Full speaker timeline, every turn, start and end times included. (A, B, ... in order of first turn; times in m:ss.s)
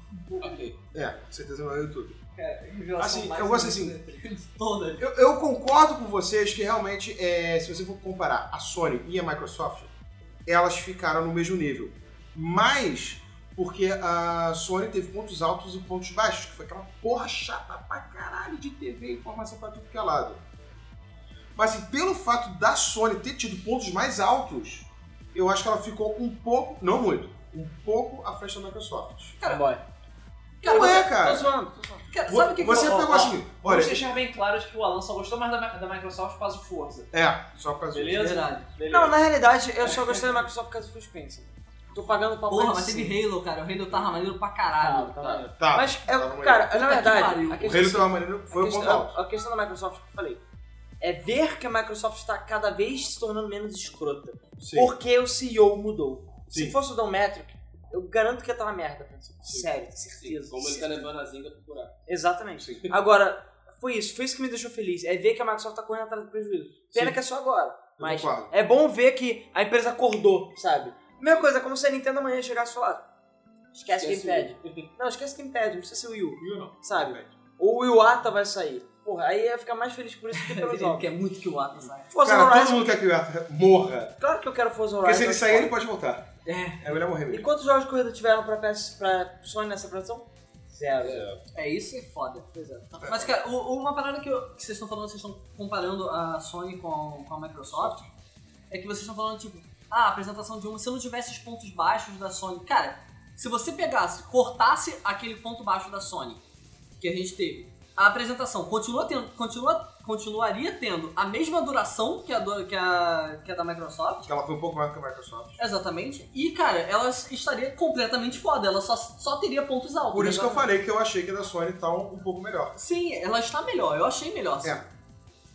0:00.2-0:00.6 A
0:00.4-0:00.8 B
0:00.9-0:02.2 C
0:02.4-0:05.1 A
0:03.0-0:04.0 C
0:05.0-0:09.9 C
0:10.5-0:20.4 C
0:21.6-0:29.4 C
0:29.4-0:29.8 A
0:29.4-0:29.8 D
0:30.6-0:31.1 A
0:30.6-0:31.5 C
0:30.7-0:32.1 D
0:32.1-0:33.3 A
0:32.3-0:34.0 C
0:32.6-0:33.0 D
0:32.8-0:37.1 E
0:37.1-0:38.3 C
0:37.9-0:39.2 E
0:38.2-0:38.7 A
0:38.9-0:43.2 D
0:42.5-0:45.2 A
0:44.8-0:50.4 D
0:45.2-0:45.4 B
0:45.6-0:46.7 C
0:46.7-0:47.9 A
0:47.6-0:49.2 C
0:51.0-1:01.0 D
0:54.6-0:54.9 C
0:56.5-0:56.8 C
1:00.1-1:02.0 B
1:02.1-1:13.0 D
1:02.6-1:02.9 C
1:08.0-1:08.5 C
1:13.7-1:21.1 D
1:13.9-1:14.9 B
1:16.4-1:17.3 C
1:20.3-1:22.1 A
1:22.1-1:23.0 D
1:22.2-1:24.2 C
1:24.2-1:25.7 D
1:25.0-1:27.5 C
1:26.5-1:26.9 A
1:27.3-1:31.3 D
1:31.0-1:31.4 C
1:31.5-1:38.0 A
1:32.5-1:33.2 D
1:37.7-1:38.1 C
1:38.7-1:46.4 A
1:47.0-1:54.3 A
1:54.3-1:55.6 C
1:55.6-2:00.6 A
2:00.1-2:02.8 C
2:02.8-2:04.8 A